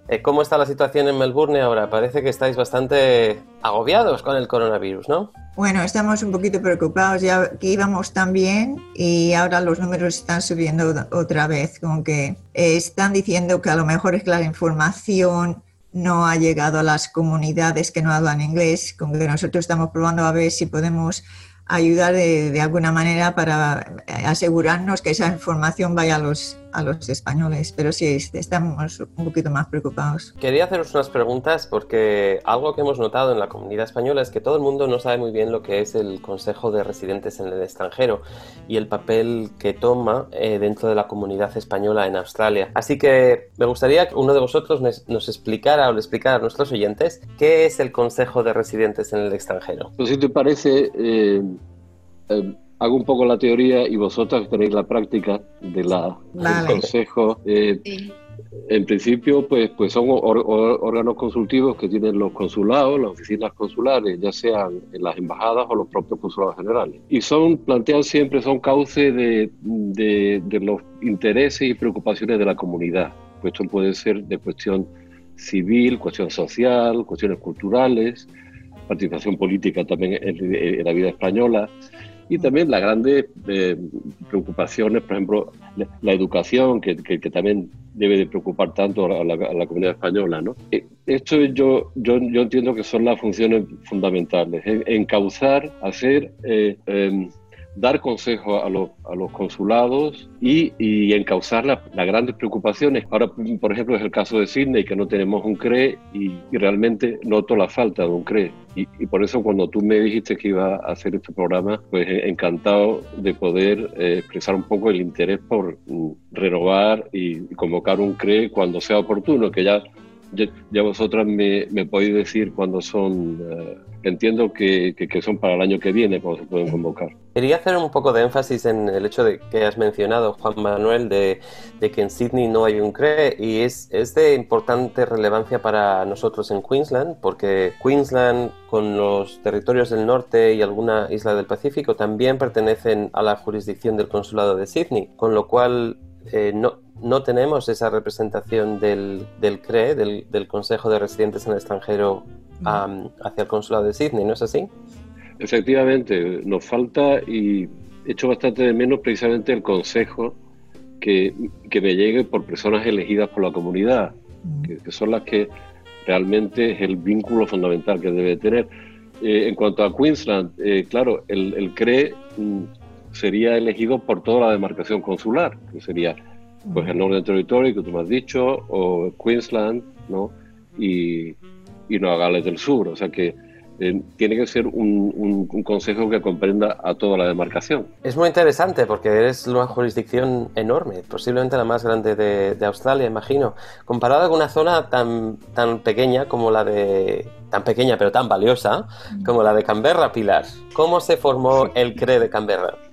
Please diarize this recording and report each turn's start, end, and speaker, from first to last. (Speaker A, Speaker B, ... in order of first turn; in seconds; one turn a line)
Speaker A: 0.1-5.3
Speaker B: 5.6-30.3
Speaker A: 30.4-49.9
Speaker C: 50.0-51.6
Speaker C: 52.3-57.8
Speaker B: 56.4-56.9
Speaker C: 58.7-78.3
Speaker C: 78.9-81.7
Speaker C: 82.3-127.1
Speaker A: 127.3-154.7
Speaker C: 155.4-160.4
Speaker C: 161.0-164.1
Speaker B: 164.4-164.7
Speaker C: 164.7-165.5
Speaker C: 166.1-168.7
Speaker C: 169.2-176.2
Speaker B: 176.6-177.0
Speaker C: 176.7-181.4
Speaker C: 181.9-187.9
Speaker A: 188.1-202.8